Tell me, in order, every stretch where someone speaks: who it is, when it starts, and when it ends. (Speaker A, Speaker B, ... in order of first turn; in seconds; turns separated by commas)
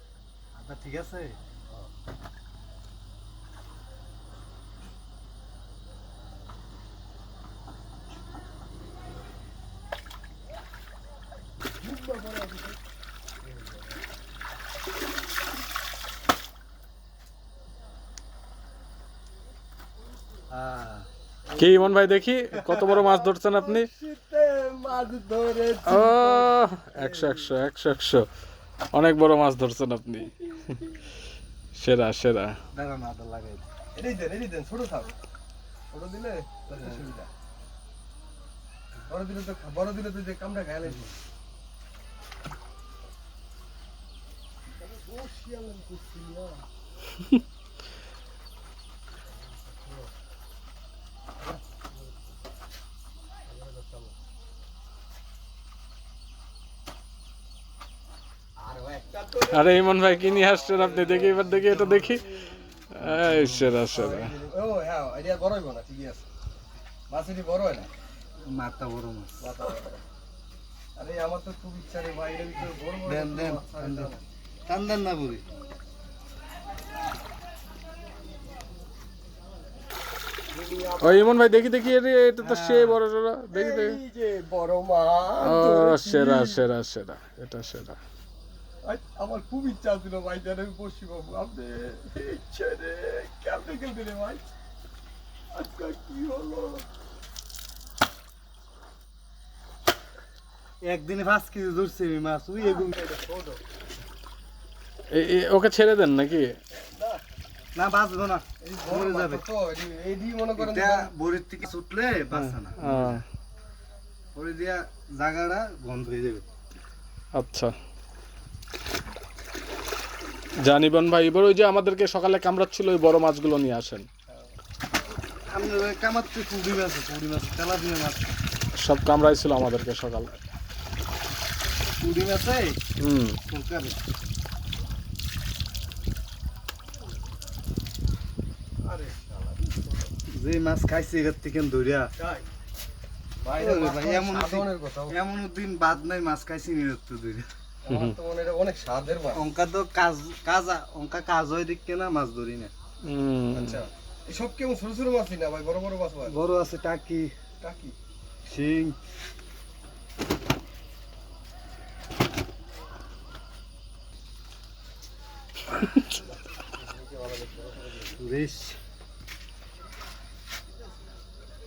Speaker A: 0.5-1.4, Speaker B: 11.8-12.8, Speaker A: 20.5-21.1, Speaker B: 21.5-27.2, Speaker C: 21.6-23.9, Speaker A: 22.6-23.0, Speaker C: 25.9-28.2, Speaker A: 27.2-27.5, Speaker C: 28.9-30.8, Speaker C: 31.7-32.5, Speaker A: 32.7-33.6, Speaker B: 33.9-35.1, Speaker B: 35.9-37.3, Speaker B: 39.1-41.1, Speaker B: 44.8-46.6, Speaker B: 49.5-50.1, Speaker B: 51.4-51.9, Speaker B: 53.5-54.1, Speaker B: 58.6-61.8, Speaker C: 59.5-62.3, Speaker A: 61.5-62.1, Speaker C: 62.9-64.3, Speaker A: 63.0-63.8, Speaker B: 63.9-66.2, Speaker B: 67.1-67.9, Speaker A: 68.4-69.5, Speaker B: 69.4-70.0, Speaker B: 71.0-74.2, Speaker A: 73.0-74.1, Speaker A: 74.7-75.5, Speaker B: 80.5-81.3, Speaker C: 81.0-84.0, Speaker A: 82.4-83.0, Speaker B: 83.5-86.6, Speaker C: 85.4-88.0, Speaker B: 88.8-94.4, Speaker B: 95.5-96.8, Speaker A: 100.8-102.9, Speaker B: 102.6-103.6, Speaker C: 105.1-106.6, Speaker B: 106.7-107.2, Speaker A: 107.7-109.4, Speaker B: 108.6-111.1, Speaker A: 110.5-113.2, Speaker C: 112.3-113.2, Speaker A: 114.3-116.5, Speaker C: 117.3-117.7, Speaker C: 120.6-124.0, Speaker A: 125.5-128.3, Speaker C: 128.8-130.4, Speaker A: 131.8-132.8, Speaker C: 133.0-133.4, Speaker A: 133.5-134.0, Speaker B: 138.8-140.1, Speaker A: 140.3-142.1, Speaker B: 142.2-142.4, Speaker B: 143.4-145.2, Speaker A: 143.5-147.5, Speaker B: 147.8-149.5, Speaker C: 147.9-148.1, Speaker A: 149.3-152.7, Speaker C: 153.0-153.8, Speaker B: 153.5-156.4, Speaker A: 156.3-157.3, Speaker B: 157.6-157.9, Speaker A: 158.4-159.0, Speaker B: 166.8-168.2, Speaker A: 168.2-168.8